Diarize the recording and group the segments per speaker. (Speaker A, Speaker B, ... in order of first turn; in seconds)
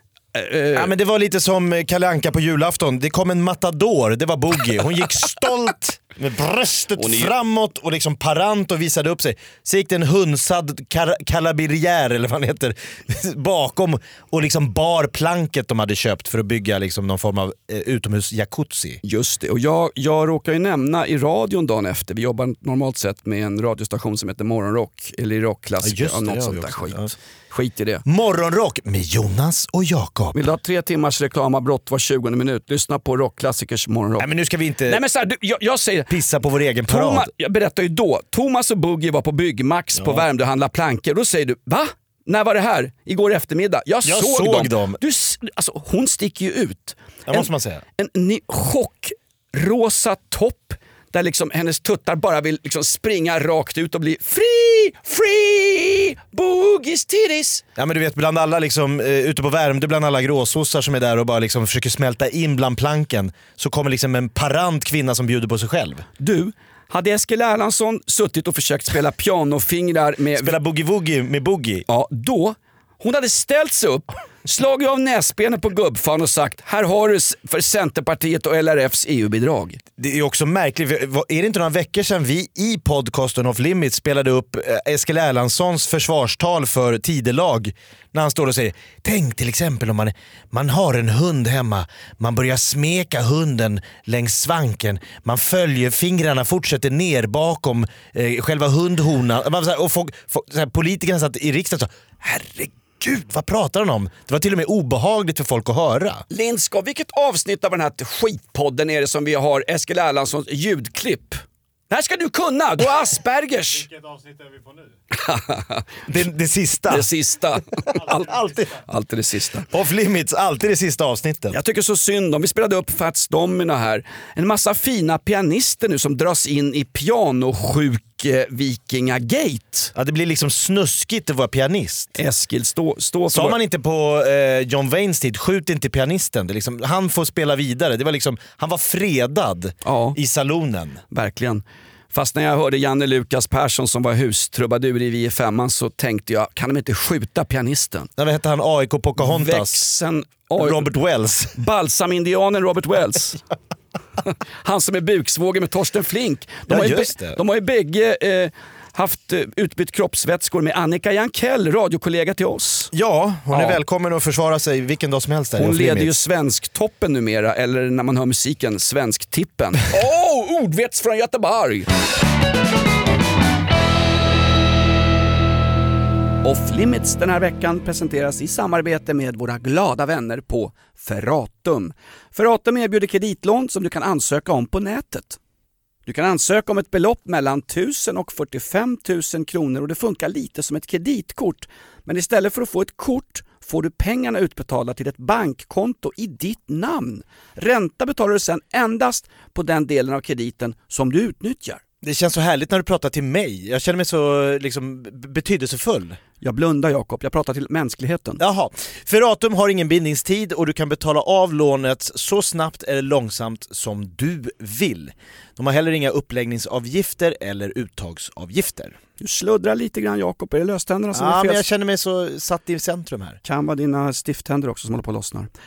Speaker A: 0.3-0.9, 7.0-7.3, 19.0-28.0, 30.3-34.3, 34.9-36.1, 36.9-57.6, 66.2-70.6, 71.9-79.8, 106.3-113.8, 115.2-115.8, 116.9-119.7, 121.5-129.9, 132.2-133.6, 139.8-140.2, 141.1-148.1, 149.2-150.9, 151.5-153.4, 154.6-162.9, 163.5-163.8, 165.6-171.9, 176.4-185.4, 186.1-201.8, 206.4-208.4, 219.2-221.6, 223.4-225.5
Speaker B: 0.7-19.0, 25.8-27.1, 28.0-30.4, 34.2-35.0, 36.1-37.3, 40.0-40.2, 44.0-45.0, 47.3-47.8, 57.8-66.0, 70.4-71.8, 80.0-106.2, 116.1-117.1, 118.3-118.6, 119.7-121.6, 129.9-132.2, 133.3-141.0, 148.2-149.8, 150.6-151.5, 156.7-157.4, 162.9-166.2, 202.0-206.2, 208.4-218.9, 221.1-223.4
Speaker C: 113.6-115.0, 117.9-118.8